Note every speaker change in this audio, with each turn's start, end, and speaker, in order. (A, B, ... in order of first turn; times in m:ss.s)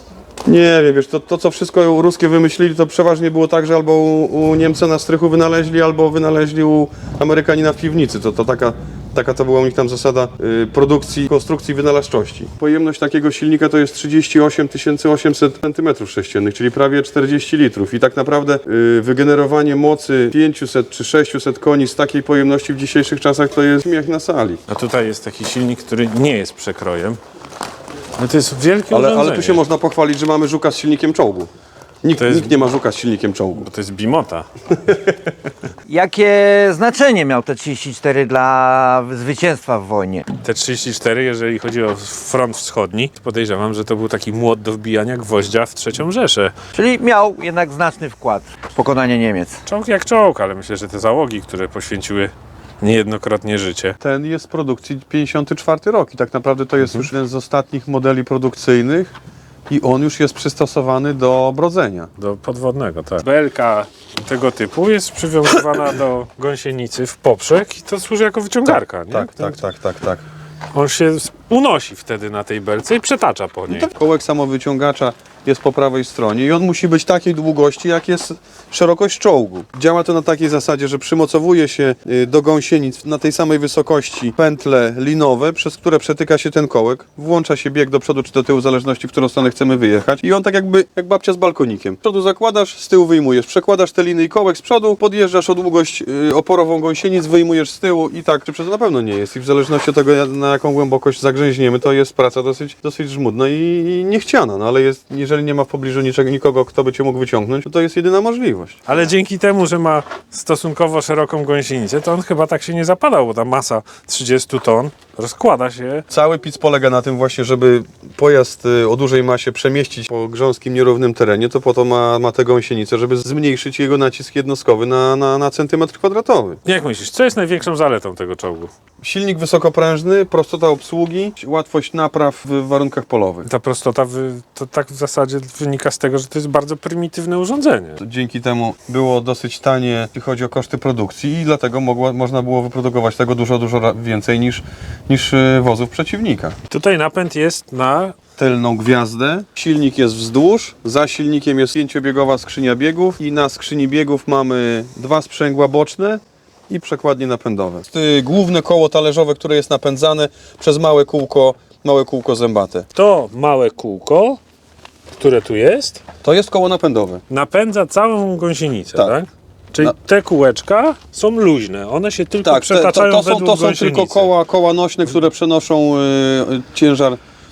0:00.5-0:24.6 A
0:24.7-0:27.2 B
0:28.2-0:29.6 B
0:28.9-0:31.5 A
0:32.0-0:33.7 A
0:32.2-0:32.6 B
0:33.6-0:34.5 B
0:34.9-0:35.2 A
0:35.9-0:40.3 C
0:40.4-0:46.6 B
0:46.8-0:49.6 C
0:49.7-0:54.0 B
0:54.0-0:59.1 A
0:59.7-1:02.1 A
1:02.2-1:09.6 B
1:08.7-1:10.2 A
1:10.7-1:13.9 B
1:13.7-1:48.8 A
1:48.9-1:56.0 B
1:56.1-2:06.6 A
2:06.6-2:08.7 B
2:09.0-2:13.5 A
2:13.5-2:18.0 B
2:18.0-2:26.6 A
2:26.7-2:28.2 B
2:28.4-2:42.9 A
2:42.9-2:44.4 B
2:45.2-2:46.0 B
2:46.2-2:47.2 A
2:47.3-2:54.3 B
2:52.4-2:57.2 A